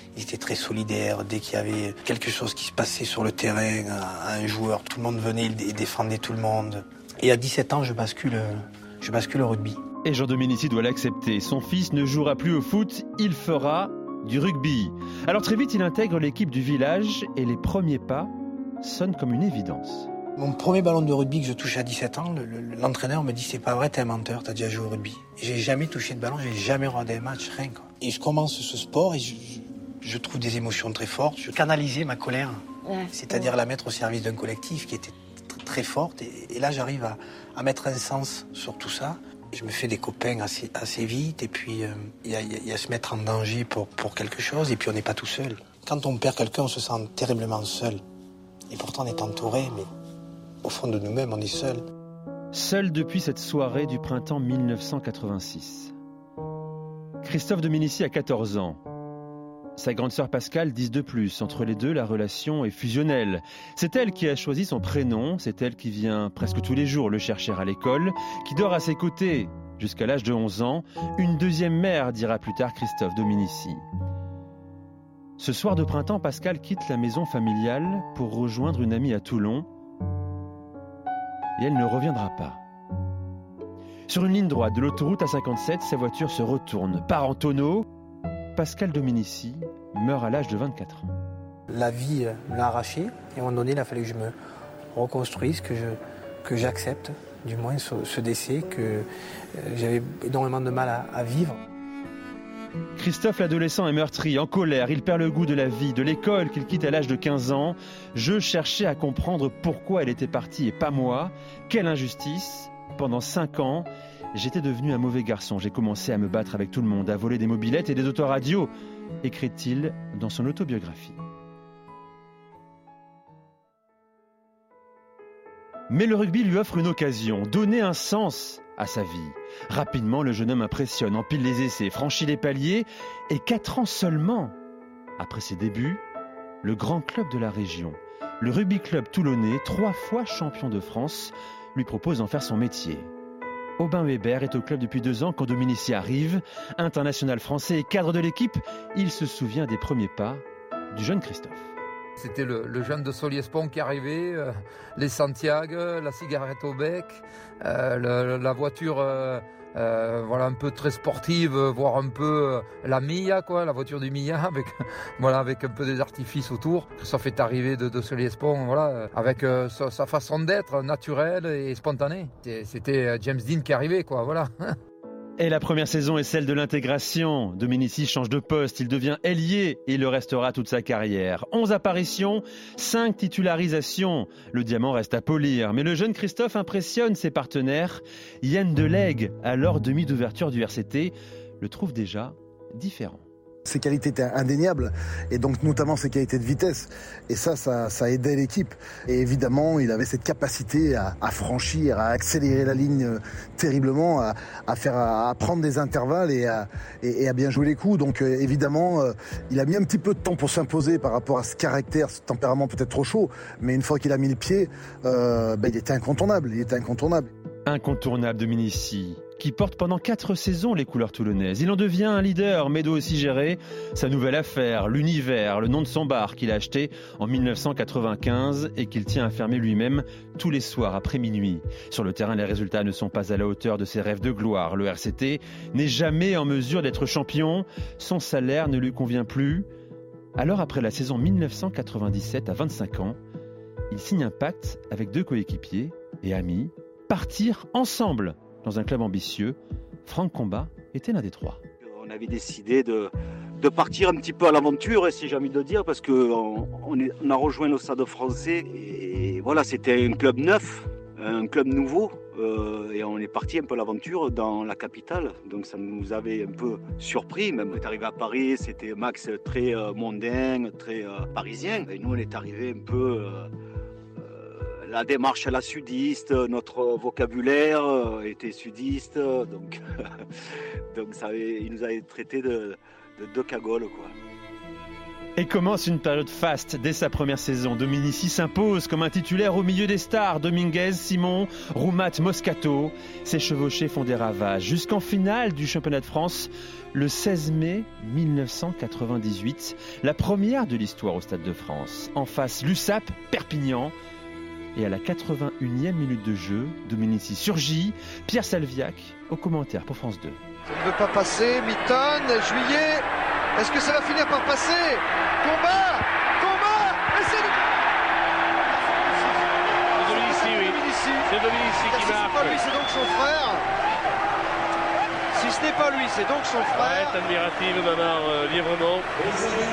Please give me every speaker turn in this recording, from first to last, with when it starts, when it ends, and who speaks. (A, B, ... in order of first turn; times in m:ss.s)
0:00.1-0:09.8 A
0:10.0-0:20.1 B
0:20.4-0:48.0 A
0:48.7-0:49.9 A
0:50.6-0:51.8 A
0:52.5-0:55.9 B
0:57.2-0:58.8 B
0:59.8-1:13.8 B
1:15.4-1:19.7 B
1:21.6-1:22.6 B
1:24.1-1:27.9 B
1:28.6-1:31.1 B
1:31.7-1:34.3 A
1:34.9-1:41.6 A
1:43.0-1:58.7 B
1:59.2-2:01.2 B
2:05.9-2:14.6 B
2:15.2-2:16.0 B
2:16.6-2:23.1 B
2:23.8-2:31.7 B
2:32.2-2:54.8 C
2:55.4-3:13.3 B
3:13.7-3:37.3 D
3:37.7-3:59.7 B
4:00.4-4:03.2 B
4:03.9-4:11.6 B
4:11.8-4:33.5 E
4:34.2-4:40.2 E
4:40.9-4:44.1 E
4:45.4-5:04.0 B
5:04.8-5:10.4 B
5:10.7-5:13.0 F
5:13.6-5:17.6 F
5:20.0-5:22.6 G
5:20.0-5:21.3 F
5:21.8-5:23.6 F
5:25.3-5:27.2 F
5:26.8-5:29.1 G